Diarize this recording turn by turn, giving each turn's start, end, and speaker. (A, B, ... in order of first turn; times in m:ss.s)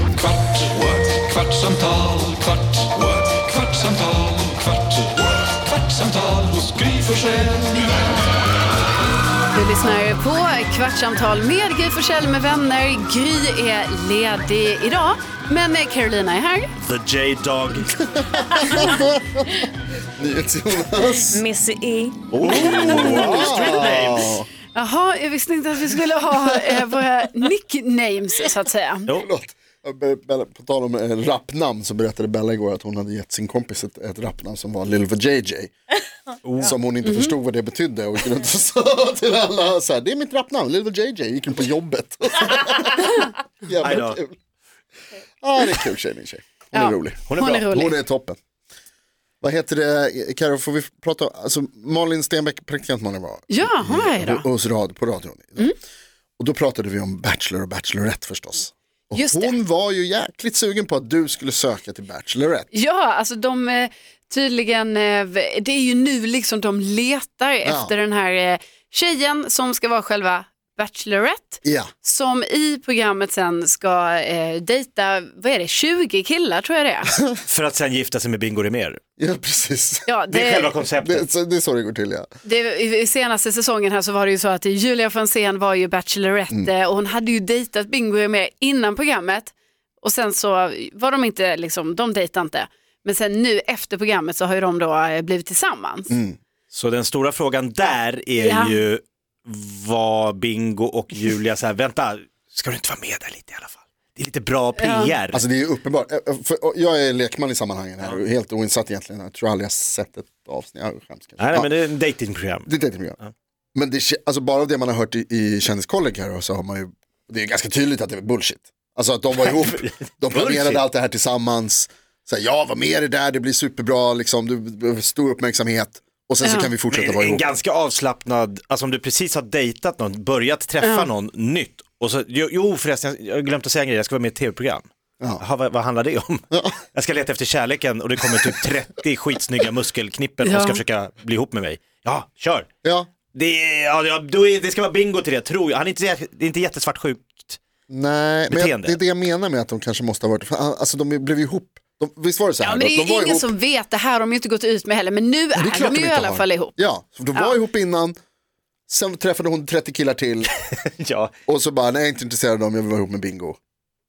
0:00.7-0:02.5 A
0:03.3-0:04.6 A
0:06.0-0:07.7 A
0:09.5-0:16.7 B
0:16.8-0:18.0 C
0:18.2-0:19.5 D
0:20.2-0:21.4 D
0:21.2-0:23.8 E
0:22.3-0:24.4 C
0:22.4-0:24.5 D
0:24.7-0:29.1 B
0:29.1-0:35.7 D
0:36.4-0:36.7 C
0:36.6-0:44.3 D
0:37.0-0:37.3 B
0:43.8-0:44.2 C
0:45.4-0:48.4 D
0:46.7-0:48.0 B
0:47.3-0:47.6 C
0:49.4-0:55.8 D
0:53.5-0:54.4 B
0:56.4-1:02.7 D
0:59.1-0:59.5 B
1:02.7-1:17.1 B
1:07.6-1:07.9 D
1:11.6-1:11.9 D
1:17.4-1:19.0 C
1:19.2-1:20.1 D
1:20.1-1:20.7 B
1:20.3-1:21.3 C
1:21.0-1:22.3 D
1:22.4-1:36.1 B
1:36.1-1:36.4 D
1:36.7-1:45.4 C
1:38.4-1:38.8 B
1:44.8-1:45.2 B
1:45.3-1:51.7 D
1:51.4-1:52.7 C
1:52.6-1:53.2 D
1:53.7-2:07.4 D
1:59.4-2:00.8 C
2:06.4-2:06.7 B
2:06.9-2:22.7 C
2:10.8-2:11.1 B
2:16.5-2:16.8 D
2:20.4-2:20.8 B
2:22.8-2:23.1 D
2:23.3-2:27.6 C
2:27.9-2:33.5 D
2:28.5-2:29.0 C
2:32.6-2:36.7 B
2:35.5-2:38.2 D
2:38.9-2:40.5 D
2:41.0-2:41.3 C
2:41.5-2:43.6 D